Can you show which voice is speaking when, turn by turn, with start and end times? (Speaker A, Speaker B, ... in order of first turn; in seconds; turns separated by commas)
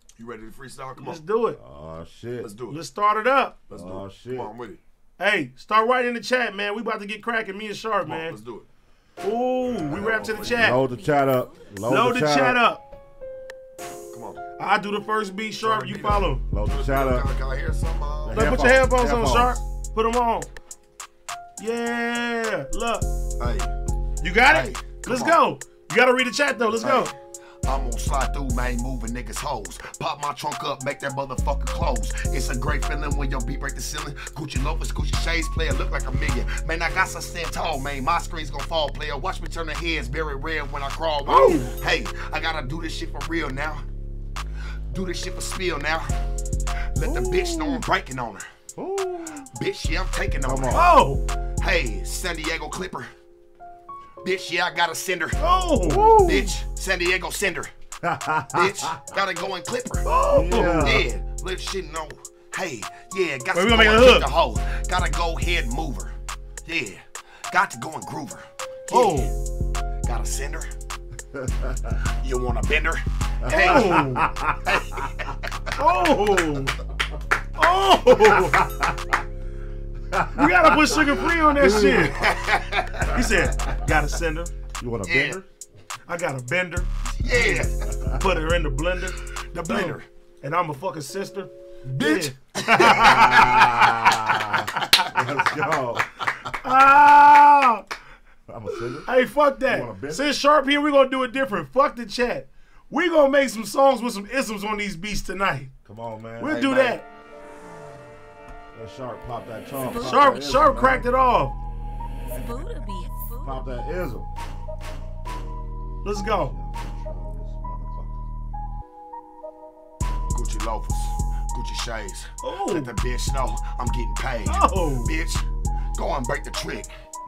Speaker A: 0.2-1.2, Speaker B: 1.0-1.6, Speaker C: 1.6-2.5, Speaker A: 2.4-2.8, Speaker B: 2.7-3.6, Speaker A: 3.7-4.8, Speaker C: 3.7-4.5, Speaker B: 5.2-8.3, Speaker A: 8.0-8.7, Speaker B: 9.2-10.8, Speaker A: 9.8-10.8, Speaker C: 10.5-12.6, Speaker D: 10.8-11.7, Speaker B: 11.8-12.8, Speaker A: 14.1-14.4, Speaker B: 14.6-16.4, Speaker A: 15.6-18.5, Speaker C: 16.5-17.2, Speaker C: 18.2-19.6, Speaker B: 18.3-20.5, Speaker B: 21.6-23.1, Speaker A: 23.4-23.7, Speaker B: 24.2-27.1, Speaker A: 24.5-25.4, Speaker A: 26.7-27.1, Speaker A: 27.6-43.8, Speaker B: 41.2-41.7, Speaker A: 44.9-46.1, Speaker A: 46.9-48.4, Speaker C: 47.0-47.8, Speaker C: 48.8-49.5, Speaker A: 49.5-51.0, Speaker C: 50.4-50.8, Speaker B: 50.7-51.2, Speaker A: 51.6-53.1, Speaker A: 54.2-55.4, Speaker B: 55.4-56.3, Speaker C: 55.8-56.5, Speaker A: 56.2-57.7, Speaker C: 58.0-59.0, Speaker A: 58.5-66.1, Speaker B: 60.0-61.0, Speaker C: 60.3-61.0, Speaker B: 63.5-64.3, Speaker A: 66.6-69.4, Speaker B: 68.9-69.3, Speaker A: 70.0-70.7, Speaker C: 71.3-71.9, Speaker A: 71.9-74.1, Speaker C: 73.4-74.6, Speaker B: 73.5-74.3, Speaker A: 74.6-75.7, Speaker B: 75.8-76.8, Speaker B: 77.5-78.6, Speaker C: 78.3-79.1, Speaker C: 80.1-80.5, Speaker B: 80.3-82.2, Speaker C: 81.6-82.1, Speaker A: 81.8-83.3, Speaker B: 83.1-84.5, Speaker C: 84.8-85.4, Speaker A: 85.0-85.4, Speaker B: 86.1-93.6, Speaker A: 87.2-87.9, Speaker C: 87.9-88.2, Speaker A: 89.3-90.0, Speaker A: 91.9-95.3, Speaker C: 93.0-96.2, Speaker B: 96.5-97.8, Speaker C: 98.5-99.1, Speaker B: 99.0-105.7, Speaker C: 99.7-100.2, Speaker C: 105.8-106.6, Speaker B: 106.4-107.0, Speaker A: 106.5-107.0, Speaker C: 108.7-111.1, Speaker D: 109.8-110.3, Speaker B: 110.0-111.5, Speaker D: 112.3-113.6, Speaker C: 113.4-114.3, Speaker B: 116.0-116.5, Speaker C: 116.2-118.1, Speaker A: 120.3-125.4, Speaker B: 122.4-122.9, Speaker B: 124.5-125.1, Speaker A: 125.9-126.9